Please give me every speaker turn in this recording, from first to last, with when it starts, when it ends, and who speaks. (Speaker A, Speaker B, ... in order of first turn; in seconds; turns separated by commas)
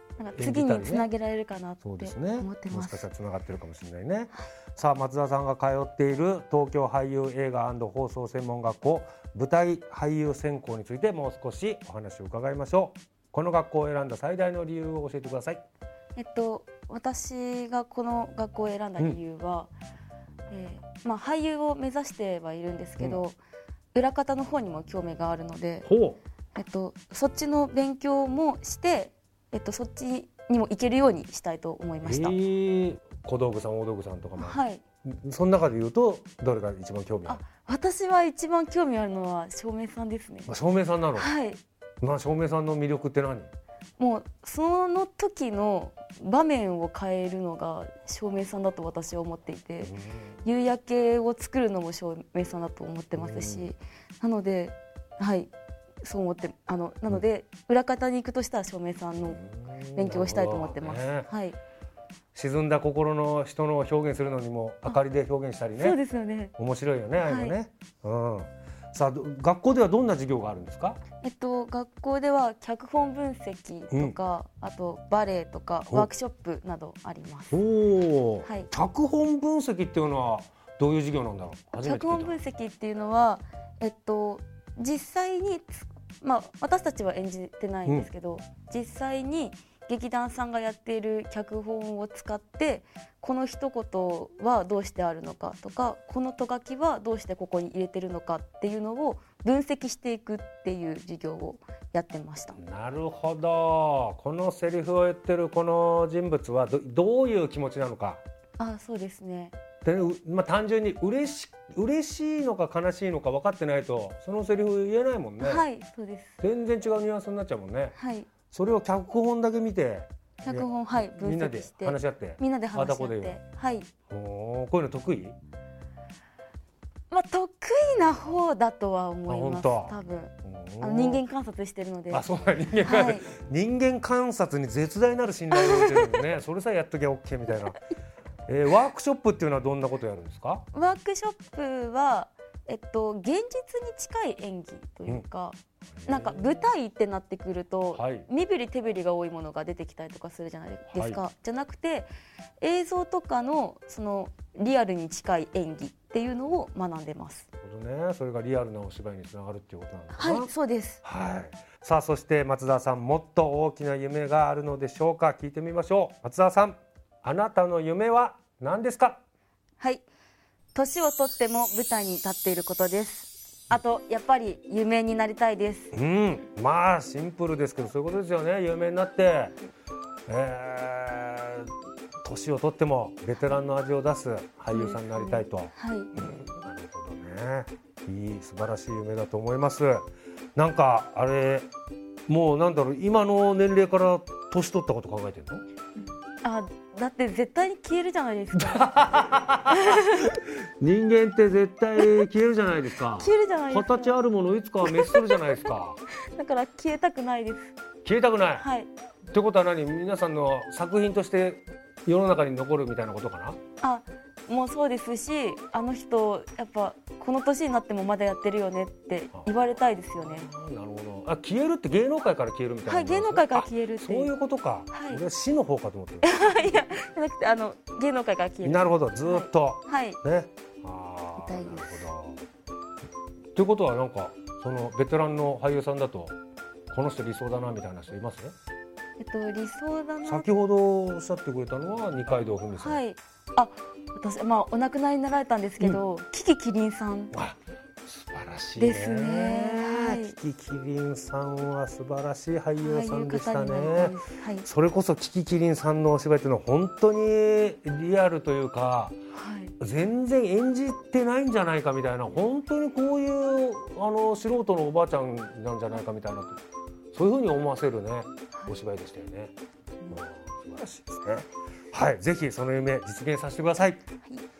Speaker A: 0.2-3.1, Speaker B: 0.4-1.1, Speaker B: 1.8-15.6, Speaker A: 16.2-19.7, Speaker A: 20.5-23.4, Speaker A: 23.9-25.9, Speaker B: 25.9-26.2, Speaker A: 26.5-32.4, Speaker B: 32.0-37.4, Speaker A: 34.4-34.8, Speaker A: 37.3-40.5, Speaker B: 40.5-41.3, Speaker A: 41.1-41.6, Speaker B: 42.0-43.5, Speaker A: 44.0-55.5, Speaker B: 49.8-50.4, Speaker B: 53.2-53.7, Speaker A: 56.0-59.4, Speaker B: 59.2-61.3, Speaker A: 59.9-61.6, Speaker B: 62.3-66.0, Speaker A: 65.8-66.5, Speaker B: 66.6-71.0, Speaker A: 67.2-67.6, Speaker A: 71.2-77.6, Speaker B: 77.5-82.4, Speaker A: 78.4-78.7, Speaker A: 81.8-102.6, Speaker B: 102.6-108.2, Speaker A: 108.6-109.5, Speaker B: 109.8-115.7, Speaker A: 115.4-116.3, Speaker B: 116.4-118.0, Speaker A: 118.0-118.3, Speaker B: 118.5-123.4, Speaker A: 120.4-123.9, Speaker B: 124.1-125.4, Speaker A: 127.1-132.2, Speaker B: 129.3-131.2, Speaker B: 132.1-137.8, Speaker A: 132.8-133.2, Speaker A: 135.5-136.2, Speaker B: 138.5-140.7, Speaker A: 140.7-157.5, Speaker B: 146.0-146.7, Speaker B: 147.9-148.3, Speaker B: 150.9-151.2, Speaker B: 157.6-160.5, Speaker A: 160.2-161.0, Speaker B: 161.0-169.2, Speaker A: 169.8-170.1, Speaker A: 170.8-175.9, Speaker B: 175.9-179.6, Speaker B: 180.3-181.7, Speaker B: 182.2-190.1, Speaker A: 184.7-186.1, Speaker B: 190.6-191.7, Speaker B: 192.3-195.6, Speaker A: 196.4-199.1, Speaker B: 198.6-206.0, Speaker A: 199.7-200.3, Speaker A: 203.2-204.2, Speaker A: 204.8-205.4, Speaker A: 206.3-207.8, Speaker B: 208.0-208.7, Speaker A: 208.6-208.9, Speaker B: 209.3-213.6, Speaker A: 213.8-220.5, Speaker B: 220.2-226.7, Speaker A: 222.9-224.3, Speaker A: 224.9-225.2, Speaker A: 226.2-230.2, Speaker B: 228.6-232.4, Speaker A: 231.4-232.1, Speaker B: 233.6-236.3, Speaker B: 236.9-238.6, Speaker A: 239.2-240.5, Speaker B: 240.2-243.0, Speaker A: 242.7-247.3, Speaker B: 247.3-259.2, Speaker A: 248.8-250.3, Speaker A: 252.8-254.7, Speaker A: 259.3-259.7, Speaker B: 259.8-266.6, Speaker B: 267.1-269.5, Speaker B: 270.1-274.0